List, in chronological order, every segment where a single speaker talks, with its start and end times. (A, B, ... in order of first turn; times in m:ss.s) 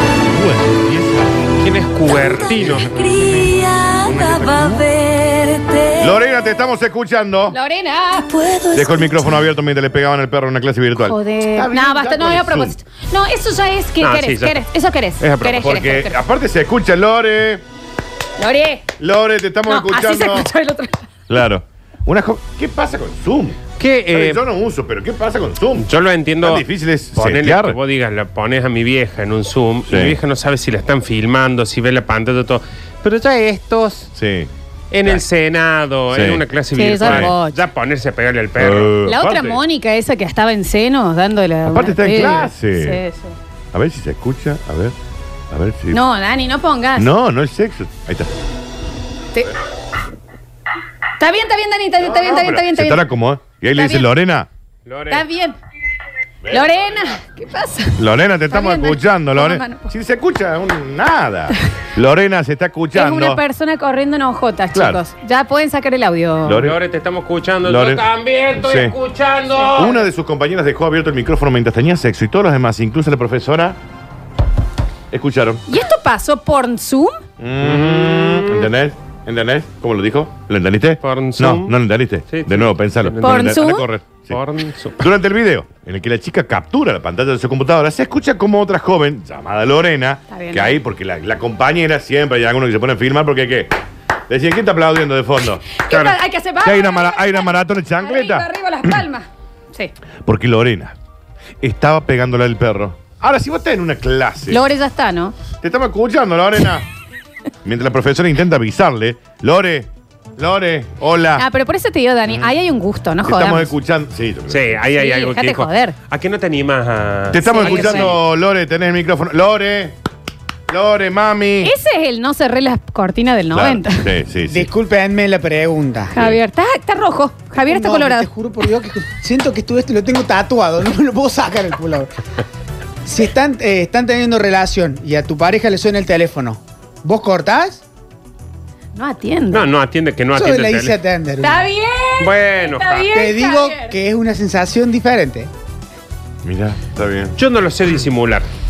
0:00.2-0:01.5 A
0:01.6-0:03.0 B
0:02.6-0:03.0 A
0:02.6-0:06.1 C
0:04.0-0:04.9 A
0:06.0-0:07.6 A
0:07.5-0:08.3 D
0:08.3-0:09.2 C
0:08.7-0:12.8 A
0:11.0-0:16.1 D
0:14.0-0:14.7 B
0:15.2-0:15.8 B
0:15.6-0:17.6 A
0:18.4-0:18.9 D
0:19.0-0:20.5 A
0:19.7-0:21.1 D
0:21.3-0:23.6 A
0:23.8-0:24.4 B
0:24.1-0:25.9 A
0:25.8-0:34.1 B
0:26.4-0:27.8 A
0:29.9-0:30.2 A
0:34.2-0:34.5 A
0:34.9-0:39.0 B
0:36.1-0:36.4 A
0:36.8-0:37.6 D
0:37.0-0:37.3 A
0:38.6-0:39.6 A
0:39.1-0:43.4 D
0:41.6-0:43.0 A
0:43.7-0:45.0 A
0:45.5-0:46.0 A
0:45.9-0:47.1 D
0:47.0-0:48.3 A
0:51.2-0:53.1 D
0:52.0-0:54.5 A
0:53.8-0:54.1 D
0:54.9-0:55.2 B
0:55.1-0:55.6 D
0:56.4-0:57.2 A
0:56.5-0:59.9 D
0:58.0-1:03.4 A
1:02.9-1:06.6 D
1:04.7-1:05.0 A
1:06.4-1:06.8 A
1:06.6-1:09.9 B
1:07.6-1:08.0 A
1:08.6-1:09.0 A
1:09.6-1:10.0 D
1:09.8-1:13.8 A
1:15.1-1:15.6 A
1:15.7-1:17.2 D
1:17.4-1:24.4 A
1:17.6-1:18.6 B
1:21.0-1:21.8 B
1:22.3-1:23.6 B
1:23.2-1:23.9 D
1:24.3-1:25.0 B
1:25.0-1:33.8 A
1:30.3-1:30.8 D
1:34.3-1:35.8 A
1:35.8-1:39.9 D
1:35.9-1:36.2 B
1:36.6-1:38.5 A
1:40.2-1:41.0 A
1:41.6-1:44.6 A
1:44.5-1:45.4 D
1:45.6-1:46.9 A
1:47.6-1:51.5 A
1:51.4-1:53.7 D
1:52.3-1:52.5 A
1:53.2-1:54.8 A
1:54.5-1:58.2 B
1:54.9-1:56.0 D
1:57.3-2:00.0 A
1:57.4-1:58.1 D
2:00.7-2:01.7 A
2:01.6-2:04.1 D
2:03.5-2:04.7 A
2:04.5-2:06.2 E
2:06.1-2:08.3 D
2:07.7-2:12.2 E
2:13.0-2:17.8 E
2:19.0-2:19.7 D
2:19.5-2:21.0 B
2:20.3-2:21.6 E
2:21.4-2:24.0 D
2:22.2-2:23.1 B
2:23.1-2:25.5 E
2:26.4-2:27.3 A
2:27.4-2:28.5 B